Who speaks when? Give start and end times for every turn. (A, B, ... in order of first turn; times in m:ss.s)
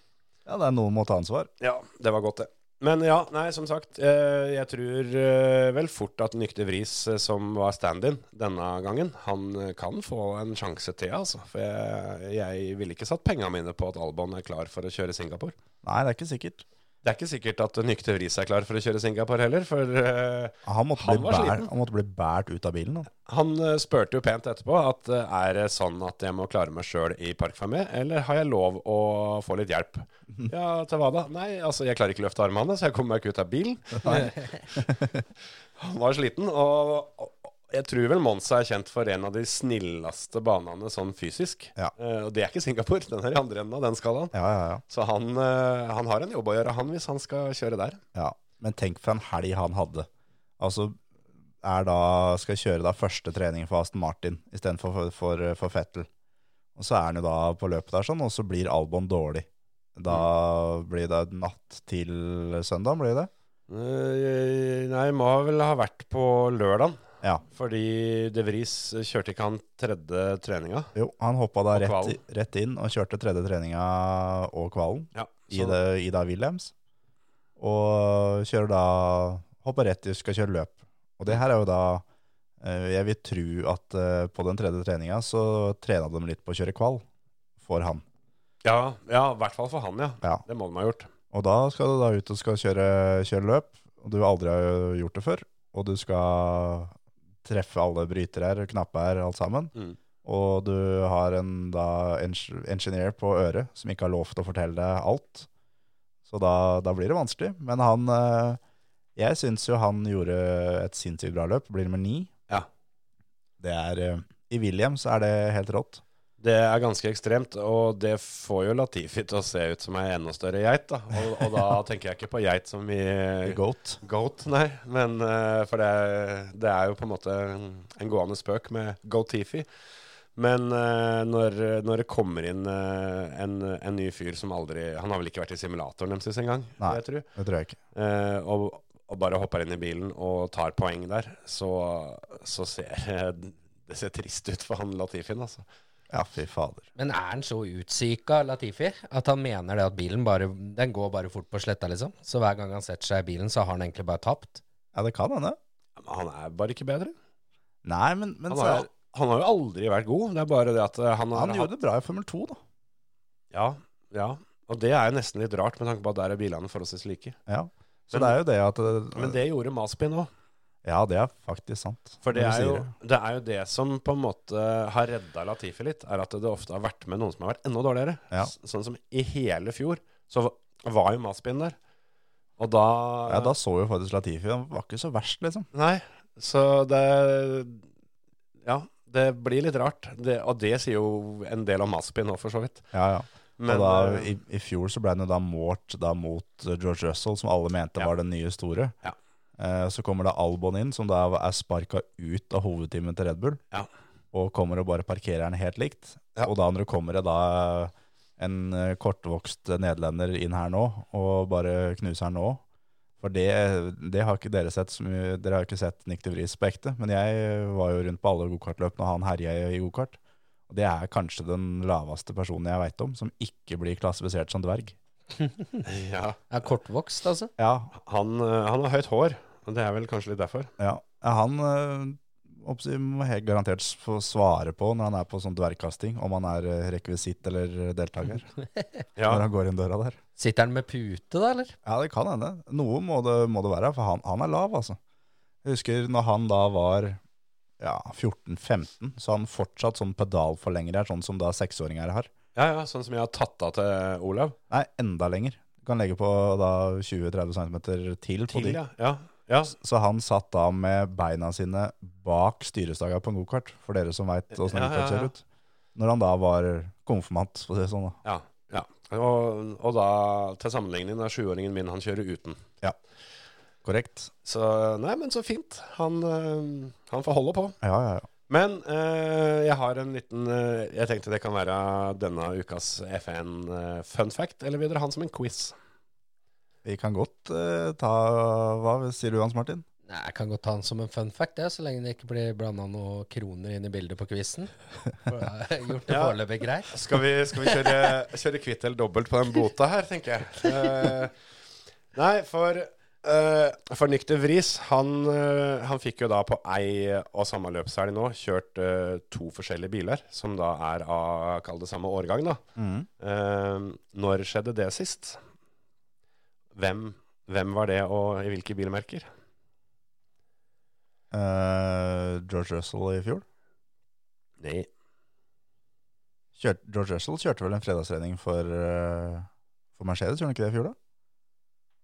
0:00.4-0:01.5 A
0:01.6-0:15.5 B
0:15.8-0:16.6 A
0:17.0-0:21.7 B
0:20.6-0:23.1 A
0:23.2-0:34.8 B
0:34.0-0:35.2 A
0:35.8-0:44.4 B
0:44.3-0:44.8 A
0:44.9-0:48.0 B
0:48.1-0:50.1 A
0:50.6-0:51.0 A
0:51.6-0:56.1 A
0:56.8-1:03.3 A
1:03.7-1:07.0 B
1:07.5-1:10.9 B
1:10.9-1:16.7 A
1:11.7-1:12.2 B
1:15.1-1:15.8 B
1:17.6-1:22.0 A
1:22.6-1:27.0 A
1:27.6-1:28.0 A
1:28.6-1:31.1 B
1:31.3-1:39.7 A
1:40.2-1:45.5 A
1:46.2-1:48.6 A
1:49.2-1:52.3 A
1:53.6-1:56.0 A
1:56.4-2:09.7 B
2:03.4-2:04.0 A
2:10.3-2:17.3 B
2:16.8-2:17.8 A
2:17.9-2:25.6 B
2:26.1-2:26.9 A
2:27.0-2:34.6 C
2:34.9-2:35.6 A
2:36.0-2:37.1 B
2:37.8-2:38.9 A
2:38.5-2:41.7 B
2:41.3-2:42.6 A
2:43.5-2:47.4 B
2:47.5-2:49.4 A
2:48.1-2:48.4 B
2:49.1-2:50.3 B
2:50.8-2:52.9 A
2:52.2-3:01.8 B
3:02.6-3:03.5 B
3:03.3-3:05.7 A
3:05.7-3:07.8 B
3:08.6-3:12.8 B
3:12.9-3:18.9 A
3:13.6-3:14.3 B
3:19.6-3:23.6 A
3:24.3-3:32.6 A
3:33.2-3:40.2 A
3:40.7-3:44.9 A
3:45.8-3:46.4 B
3:46.5-3:47.5 C
3:47.6-3:47.9 A
3:48.0-3:50.7 B
3:50.8-3:58.5 A
3:59.2-3:59.4 B
3:59.2-4:00.2 A
4:00.4-4:01.7 C
4:01.8-4:05.0 A
4:05.6-4:07.2 A
4:07.8-4:12.3 A
4:12.5-4:14.6 B
4:14.7-4:18.8 A
4:18.5-4:19.8 B
4:19.8-4:25.4 A
4:24.5-4:25.3 B
4:25.9-4:28.2 A
4:28.2-4:32.6 B
4:33.8-4:34.3 A
4:34.4-4:37.8 B
4:37.8-4:38.3 A
4:38.5-4:45.7 B
4:46.8-4:49.8 A
4:50.1-4:56.9 C
4:56.1-4:56.4 B
4:56.9-5:01.3 B
5:02.1-5:12.6 B
5:12.8-5:13.1 A
5:13.2-5:15.4 B
5:16.7-5:19.3 B
5:21.3-5:23.4 A
5:24.6-5:24.9 B
5:26.5-5:31.0 A